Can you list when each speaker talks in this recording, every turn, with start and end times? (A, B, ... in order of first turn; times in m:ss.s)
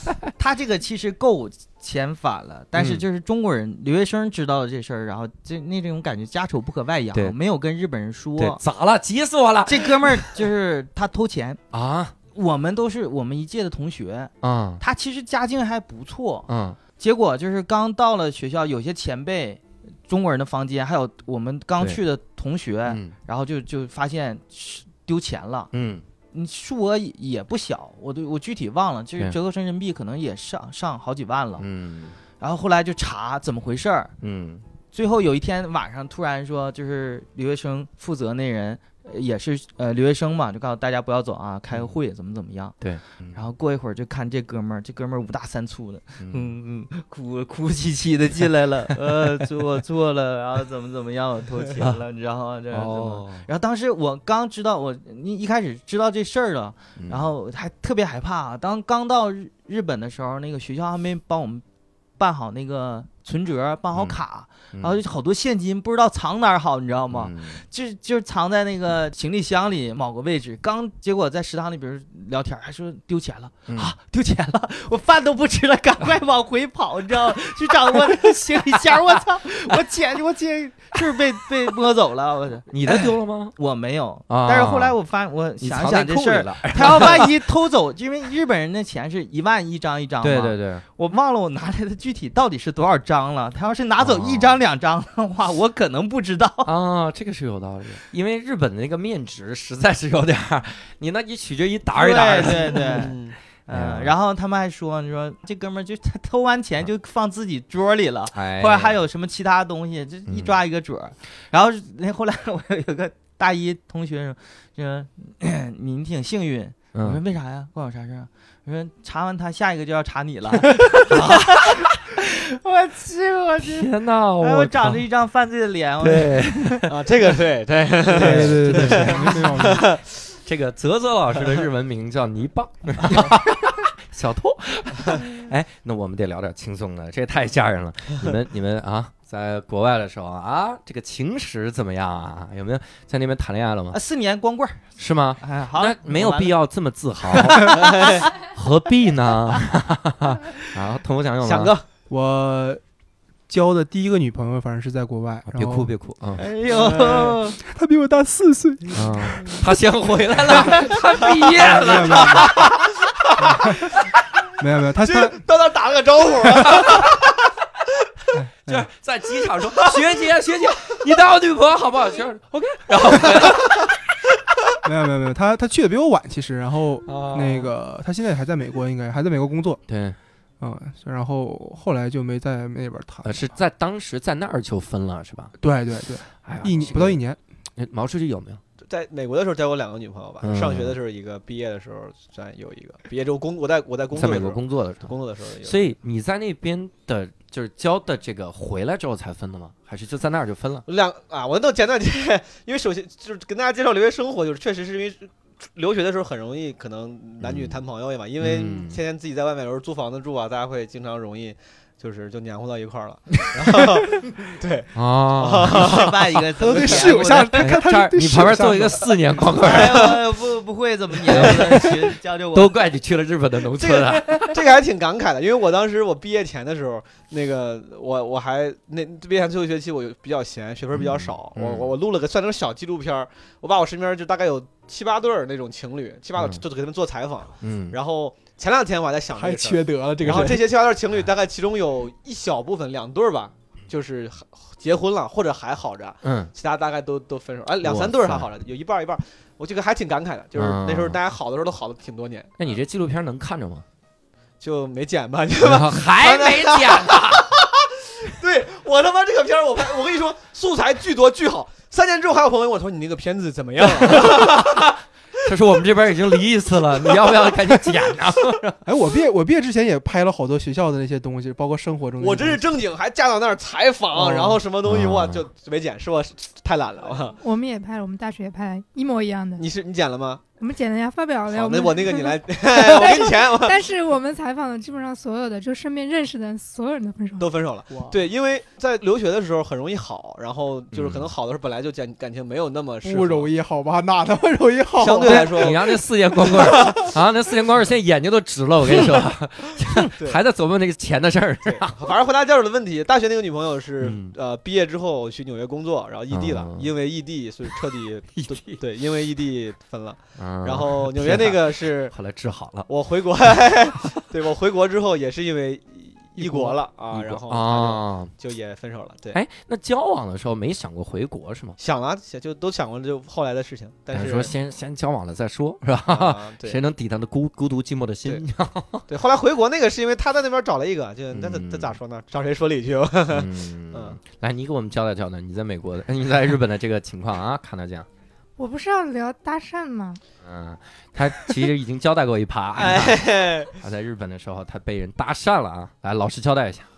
0:00.4-0:08.6 A
0:02.8-0:03.0 B
0:08.4-0:10.4 B
0:09.6-0:11.6 A
0:11.7-0:12.1 B
0:12.3-0:25.7 A
0:14.4-0:14.8 B
0:16.5-0:16.8 B
0:22.9-0:23.1 B
0:25.7-0:26.0 B
0:26.3-0:31.7 A
0:31.6-0:32.2 B
0:32.4-0:34.1 A
0:34.2-0:34.6 B
0:34.9-0:42.8 A
0:42.8-0:43.4 B
0:43.3-1:01.6 A
0:46.2-0:46.5 B
0:52.7-0:53.4 B
0:57.0-0:57.2 B
1:02.2-1:36.7 A
1:07.1-1:07.6 B
1:13.7-1:13.9 B
1:22.7-1:23.5 B
1:24.3-1:25.0 B
1:25.6-1:27.3 B
1:30.2-1:30.8 B
1:34.0-1:34.6 B
1:36.6-1:43.2 B
1:41.9-1:43.1 A
1:42.7-1:43.4 C
1:43.7-2:06.9 A
1:43.7-1:44.1 B
1:48.3-1:49.0 B
1:50.3-1:50.5 B
1:56.9-1:57.2 B
2:03.6-2:05.0 B
2:06.0-2:06.9 B
2:06.9-2:10.0 C
2:08.1-2:09.8 B
2:08.1-2:09.8 D
2:10.4-2:24.0 B
2:23.9-2:24.9 A
2:25.0-2:31.7 B
2:25.4-2:26.5 A
2:27.3-2:28.2 A
2:27.8-2:28.2 C
2:31.4-2:31.8 C
2:32.1-2:32.8 D
2:33.5-2:35.9 D
2:35.5-2:36.4 B
2:36.4-2:37.6 A
2:36.7-2:37.4 C
2:37.6-2:39.6 D
2:38.9-2:42.9 B
2:40.6-2:40.9 D
2:41.4-2:42.8 C
2:41.6-2:42.7 D
2:43.4-2:43.8 C
2:43.4-2:43.9 D
2:44.6-2:45.4 D
2:45.0-2:47.3 C
2:46.6-2:47.1 B
2:48.3-2:48.9 D
2:48.7-2:54.0 B
2:54.8-2:59.8 D
2:57.0-2:57.7 B
2:59.9-3:00.2 B
3:00.6-3:03.4 D
3:03.2-3:05.5 B
3:05.6-3:07.4 D
3:06.4-3:07.2 B
3:07.8-3:08.6 B
3:08.9-3:15.8 C
3:10.4-3:11.0 B
3:14.1-3:20.9 B
3:20.9-3:36.3 C
3:27.4-3:27.8 B
3:28.4-3:29.0 B
3:35.0-3:36.1 B
3:35.7-3:37.7 A
3:36.6-3:39.2 D
3:37.6-3:40.2 B
3:39.6-3:42.7 A
3:39.8-3:40.2 C
3:41.3-3:41.9 B
3:42.5-3:44.6 B
3:43.8-4:12.6 C
3:50.9-3:51.9 B
3:57.6-3:58.0 B
3:59.3-4:00.6 D
4:00.2-4:00.5 B
4:06.2-4:06.5 B
4:07.8-4:08.5 B
4:10.5-4:11.2 B
4:12.6-4:13.8 B
4:14.6-4:24.9 C
4:15.6-4:17.4 B
4:23.8-4:28.8 B
4:28.9-4:32.7 D
4:32.2-4:37.4 C
4:34.1-4:34.6 D
4:34.8-4:35.4 B
4:37.4-4:39.6 E
4:39.6-4:40.4 C
4:40.6-4:47.5 E
4:41.5-4:43.9 C
4:47.4-4:53.5 C
4:47.9-4:48.2 D
4:50.9-4:51.3 B
4:53.0-4:55.8 D
4:55.0-4:56.0 C
4:55.3-5:02.1 B
4:56.6-4:57.0 C
5:00.1-5:00.4 C
5:01.6-5:12.1 C
5:04.0-5:04.3 B
5:06.3-5:06.9 B
5:08.4-5:08.8 B
5:10.4-5:12.9 B
5:12.9-5:19.4 C
5:16.4-5:16.7 D
5:17.1-5:18.3 B
5:19.3-5:21.8 B
5:21.8-5:24.5 C
5:24.1-5:29.0 B
5:26.1-5:26.8 C
5:29.1-5:34.2 C
5:31.3-5:32.0 B
5:33.3-5:38.1 B
5:38.6-5:40.2 E
5:40.4-5:46.9 B
5:42.8-5:43.7 C